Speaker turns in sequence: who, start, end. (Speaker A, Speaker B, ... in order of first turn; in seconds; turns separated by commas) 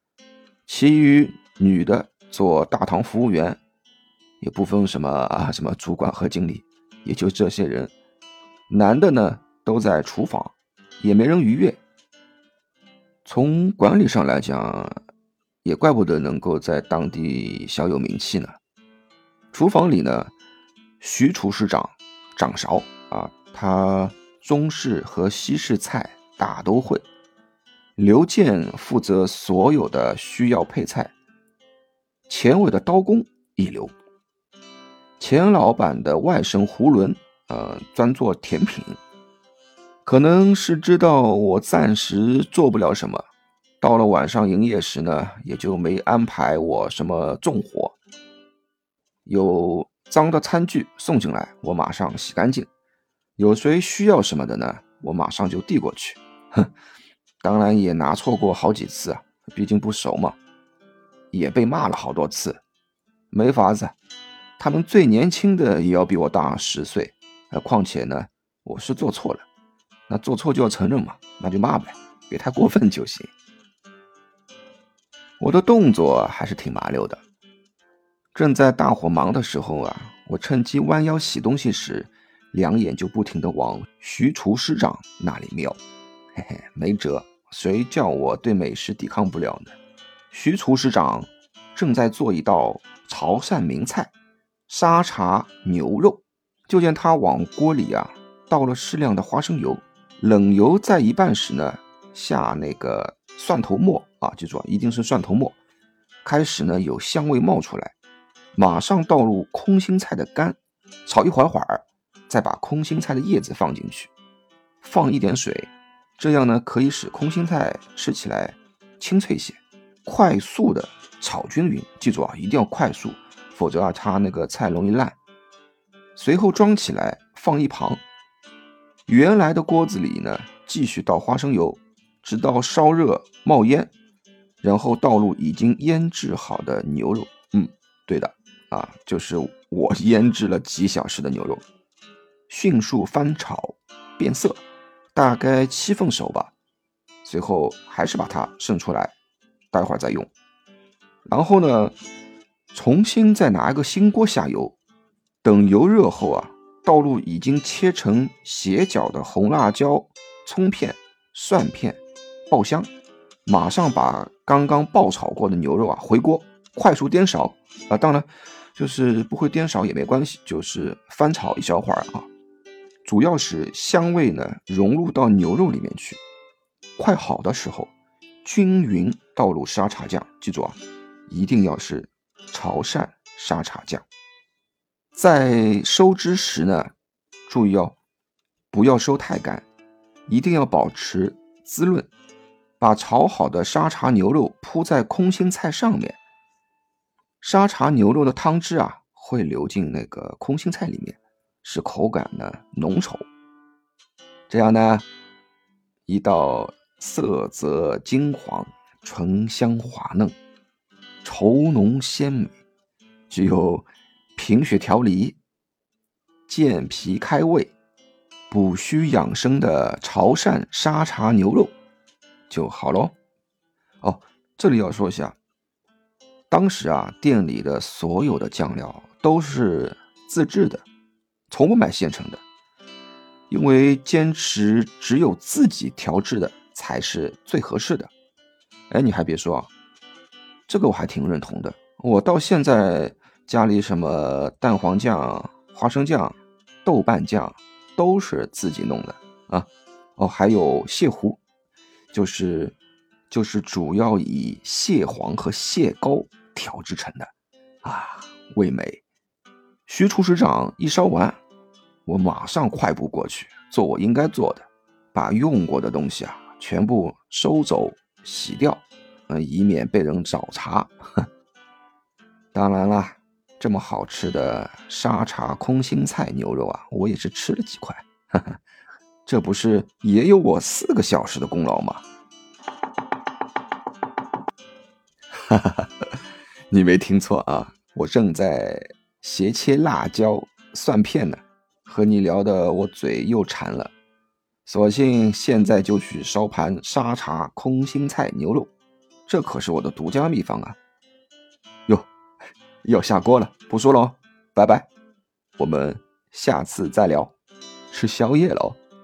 Speaker A: 0.7-3.6, Speaker A: 4.4-7.9, Speaker A: 8.7-11.8, Speaker A: 13.2-15.0, Speaker A: 15.6-18.6, Speaker A: 19.5-20.3, Speaker A: 21.0-27.0, Speaker A: 28.0-31.1, Speaker A: 32.3-33.9, Speaker A: 35.2-39.0, Speaker A: 40.0-43.2, Speaker A: 43.8-48.0, Speaker A: 49.2-52.7, Speaker A: 53.4-56.7, Speaker A: 57.4-60.4, Speaker A: 61.3-62.6, Speaker A: 63.3-63.9, Speaker A: 64.6-69.5, Speaker A: 70.1-73.3, Speaker A: 75.4-77.2, Speaker A: 78.3-85.8, Speaker A: 86.3-89.8, Speaker A: 90.3-94.1, Speaker A: 94.7-105.6, Speaker A: 106.2-107.9, Speaker A: 108.5-114.1, Speaker A: 114.8-125.2, Speaker A: 126.1-128.0, Speaker A: 129.1-133.9, Speaker A: 134.6-141.6, Speaker A: 142.5-144.6, Speaker A: 145.1-146.5, Speaker A: 147.2-149.1, Speaker A: 149.7-150.3, Speaker A: 151.2-151.9, Speaker A: 152.7-154.8, Speaker A: 155.4-162.9, Speaker A: 163.4-172.3, Speaker A: 173.0-176.2, Speaker A: 177.0-177.9, Speaker A: 178.4-184.0, Speaker A: 185.1-186.9, Speaker A: 187.5-187.9, Speaker A: 188.7-189.6, Speaker A: 190.3-192.1, Speaker A: 192.8-196.2, Speaker A: 197.4-203.2, Speaker A: 204.5-205.1, Speaker A: 206.1-210.3, Speaker A: 211.2-212.5, Speaker A: 213.3-215.4, Speaker A: 216.5-217.7, Speaker A: 218.5-221.7, Speaker A: 222.5-223.1, Speaker A: 224.0-225.3, Speaker A: 226.5-230.8, Speaker A: 231.5-232.4, Speaker A: 233.5-238.1, Speaker A: 238.9-239.7, Speaker A: 240.7-251.4, Speaker A: 252.1-252.8, Speaker A: 253.3-257.3, Speaker A: 257.8-259.0, Speaker A: 259.9-261.4, Speaker A: 262.0-271.2, Speaker A: 272.5-278.6, Speaker A: 279.2-282.0, Speaker A: 285.3-286.2, Speaker A: 286.7-293.9, Speaker A: 294.6-298.7, Speaker A: 299.3-300.8, Speaker A: 302.8-304.9, Speaker A: 305.6-307.3, Speaker A: 307.9-308.8